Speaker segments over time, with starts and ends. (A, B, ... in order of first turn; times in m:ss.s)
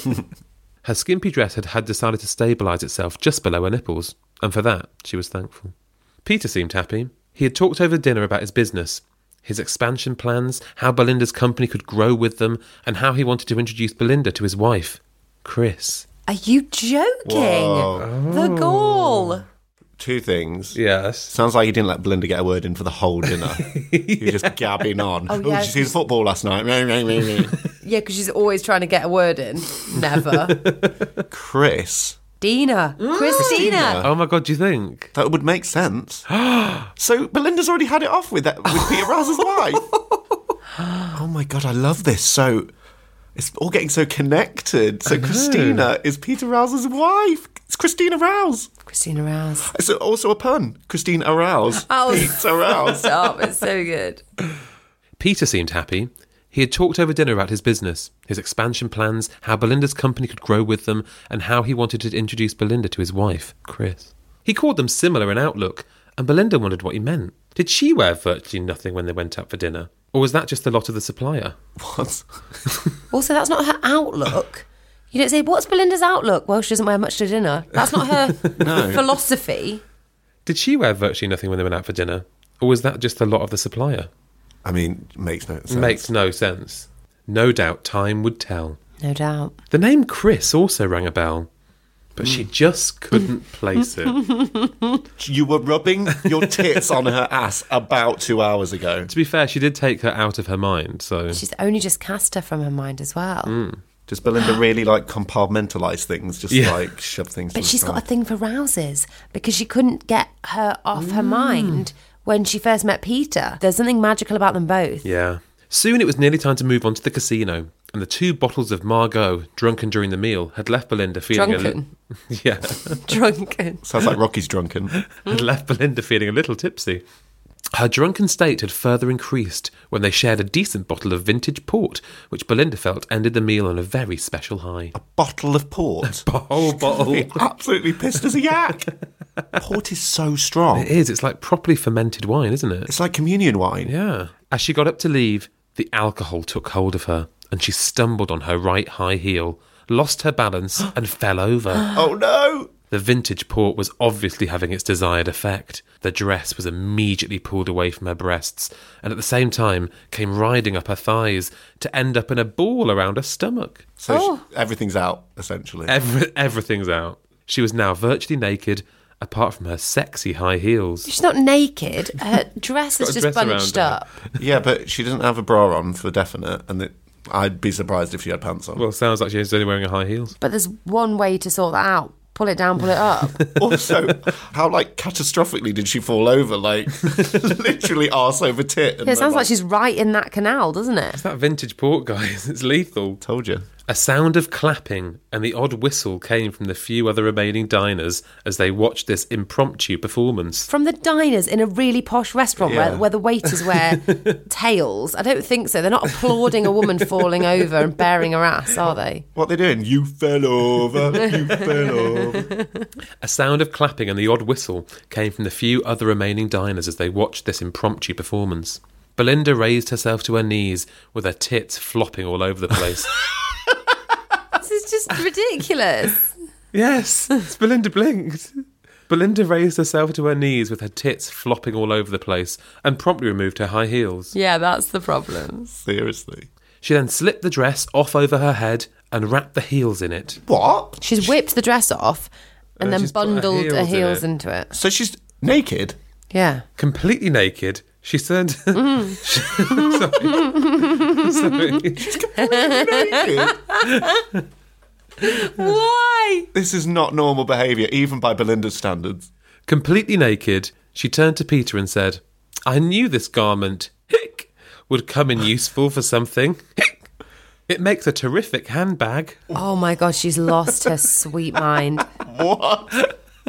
0:00.8-0:05.7 A
0:06.2-0:16.1 A
0:16.3-0:19.4 B
0:17.2-0:18.1 C
0:18.0-0:19.3 A
0:20.0-0:27.6 C
0:20.8-0:21.3 A
0:23.3-0:24.9 A
0:25.3-0:25.9 B
0:27.8-0:30.6 B
0:30.5-0:30.9 A
0:31.3-0:32.2 C
0:32.4-0:34.0 B
0:33.0-0:35.1 A
0:33.4-0:34.1 C
0:35.2-0:36.3 C
0:36.3-0:36.9 A
0:37.0-0:39.9 C
0:41.1-0:42.7 C
0:43.4-0:48.7 C
0:45.1-0:45.9 A
0:48.9-0:49.7 B
0:49.7-0:53.3 C
0:51.9-0:54.2 B
0:55.2-1:11.6 A
1:11.8-1:12.3 C
1:13.1-1:19.8 B
1:18.6-1:19.0 C
1:20.5-1:24.1 A
1:24.6-1:26.1 C
1:25.7-1:28.8 A
1:29.0-1:29.6 B
1:29.7-1:31.5 A
1:32.2-1:34.3 A
1:34.3-1:34.9 B
1:35.2-1:39.1 C
1:36.4-1:36.7 A
1:39.1-1:41.4 A
1:41.3-1:43.5 B
1:43.5-1:43.8 A
1:44.1-1:48.0 C
1:46.5-1:46.8 A
1:47.5-1:55.1 B
1:51.0-1:51.9 A
1:55.0-2:03.1 A
2:01.3-2:01.9 B
2:03.1-2:03.8 B
2:03.8-2:05.0 C
2:05.1-2:07.0 A
2:07.7-2:14.9 A
2:14.9-2:18.9 C
2:16.0-2:17.4 A
2:19.6-2:20.9 C
2:20.7-2:22.9 A
2:22.9-2:23.9 C
2:23.9-2:32.0 A
2:31.9-2:32.7 C
2:32.9-2:43.9 A
2:44.0-2:46.0 C
2:44.1-2:44.4 B
2:45.9-2:51.1 A
2:51.1-2:54.1 B
2:53.0-2:54.2 A
2:54.4-2:58.8 C
2:58.8-3:00.4 A
3:00.4-3:03.4 B
3:03.4-3:04.2 A
3:03.6-3:09.5 C
3:09.0-3:11.2 B
3:11.2-3:13.2 A
3:13.2-3:13.7 C
3:13.9-3:20.7 A
3:20.7-3:29.2 B
3:22.6-3:23.0 C
3:23.7-3:24.3 A
3:29.4-3:32.5 C
3:31.2-3:32.9 B
3:33.2-3:43.1 A
3:44.6-3:46.3 B
3:46.7-3:54.4 A
3:54.3-3:55.7 B
3:55.8-3:56.5 C
3:56.8-4:00.4 A
4:00.5-4:01.3 C
4:01.0-4:04.7 B
4:02.8-4:04.2 A
4:04.7-4:06.0 C
4:06.3-4:06.6 B
4:06.8-4:12.2 A
4:08.7-4:11.8 B
4:11.9-4:13.6 C
4:12.4-4:14.3 B
4:15.2-4:16.5 B
4:16.5-4:19.3 C
4:19.7-4:27.0 A
4:27.7-4:29.5 A
4:29.5-4:32.0 B
4:32.2-4:33.1 C